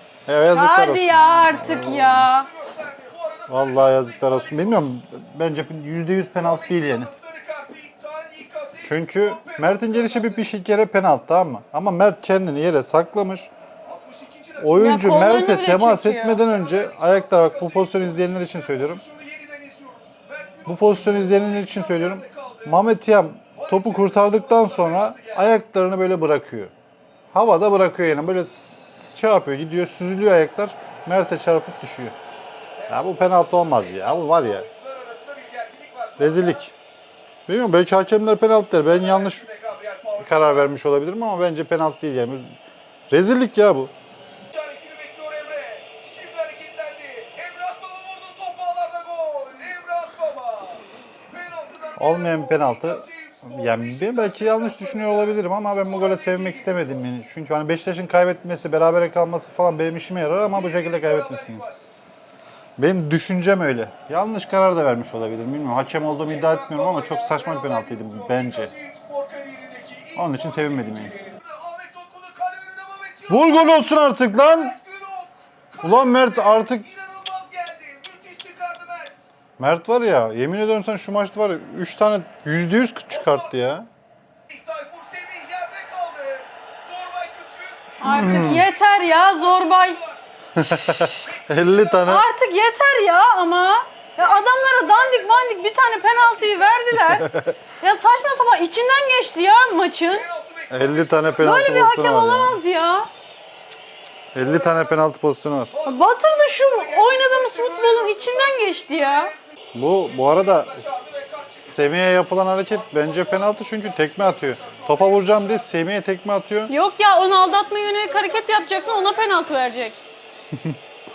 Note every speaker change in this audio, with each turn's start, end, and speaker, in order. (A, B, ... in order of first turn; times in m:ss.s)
0:00.2-0:02.3 A
0:00.5-0:02.5 B
0:02.5-0:04.6 C
0:03.5-0:07.1 A
0:06.4-0:10.3 C
0:08.8-0:13.5 A
0:13.8-0:14.6 C
0:14.6-0:19.0 A
0:14.7-0:16.4 B
0:16.6-0:22.6 C
0:20.6-0:26.7 A
0:23.7-0:25.4 C
0:27.3-0:32.1 A
0:32.9-0:34.7 A
0:33.2-0:36.5 C
0:36.2-0:36.7 A
0:37.5-0:39.5 A
0:39.2-0:40.4 C
0:40.2-0:42.6 A
0:43.1-0:43.9 A
0:44.5-0:50.8 C
0:51.3-0:55.3 C
0:52.0-1:01.6 A
0:55.8-0:56.8 C
1:00.6-1:01.7 C
1:02.8-1:08.7 A
1:06.4-1:10.2 C
1:10.1-1:11.2 A
1:11.2-1:13.3 C
1:13.3-1:14.8 A
1:14.8-1:15.3 C
1:15.8-1:16.9 A
1:16.1-1:19.2 C
1:19.6-1:23.9 A
1:24.5-1:28.0 C
1:28.0-1:30.0 B
1:28.0-1:28.7 A
1:30.5-1:32.2 A
1:31.3-1:31.9 C
1:32.0-1:40.3 B
1:34.3-1:36.8 C
1:36.9-1:37.6 A
1:40.2-1:41.3 C
1:40.7-1:42.6 A
1:41.4-1:43.1 B
1:44.3-1:45.7 A
1:45.8-1:49.3 C
1:45.8-1:49.3 B
1:49.7-1:56.7 A
1:50.1-1:51.6 C
1:52.9-1:55.5 C
1:56.7-2:00.0 B
1:58.2-1:58.8 C